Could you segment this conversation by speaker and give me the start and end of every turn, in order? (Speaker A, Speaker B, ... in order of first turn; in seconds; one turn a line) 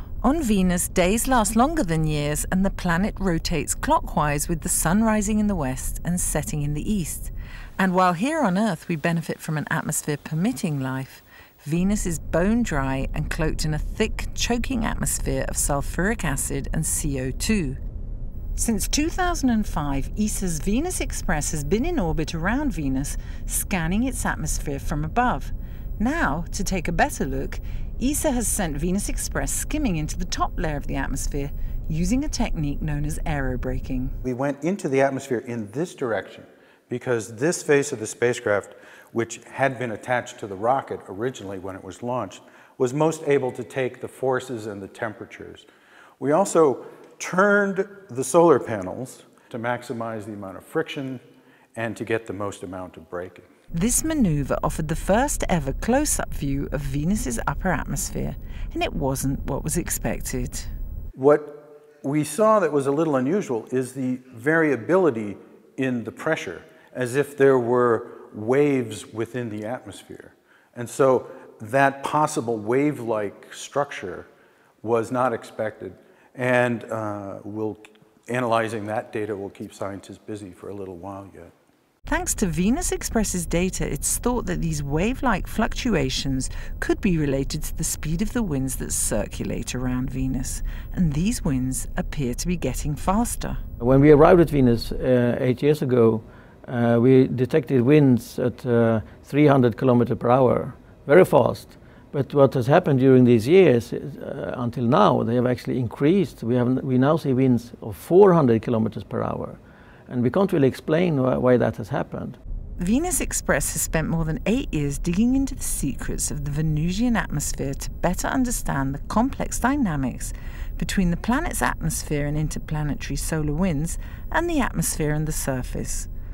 Speaker A: 0.2-17.8
Speaker A: 18.6-34.1
Speaker B: 34.2-45.6
Speaker B: 46.2-51.2
Speaker B: 51.7-53.5
Speaker A: 53.7-60.7
Speaker B: 61.1-74.3
Speaker B: 74.8-81.5
Speaker A: 82.1-93.6
Speaker C: 93.8-112.4
Speaker A: 112.8-126.1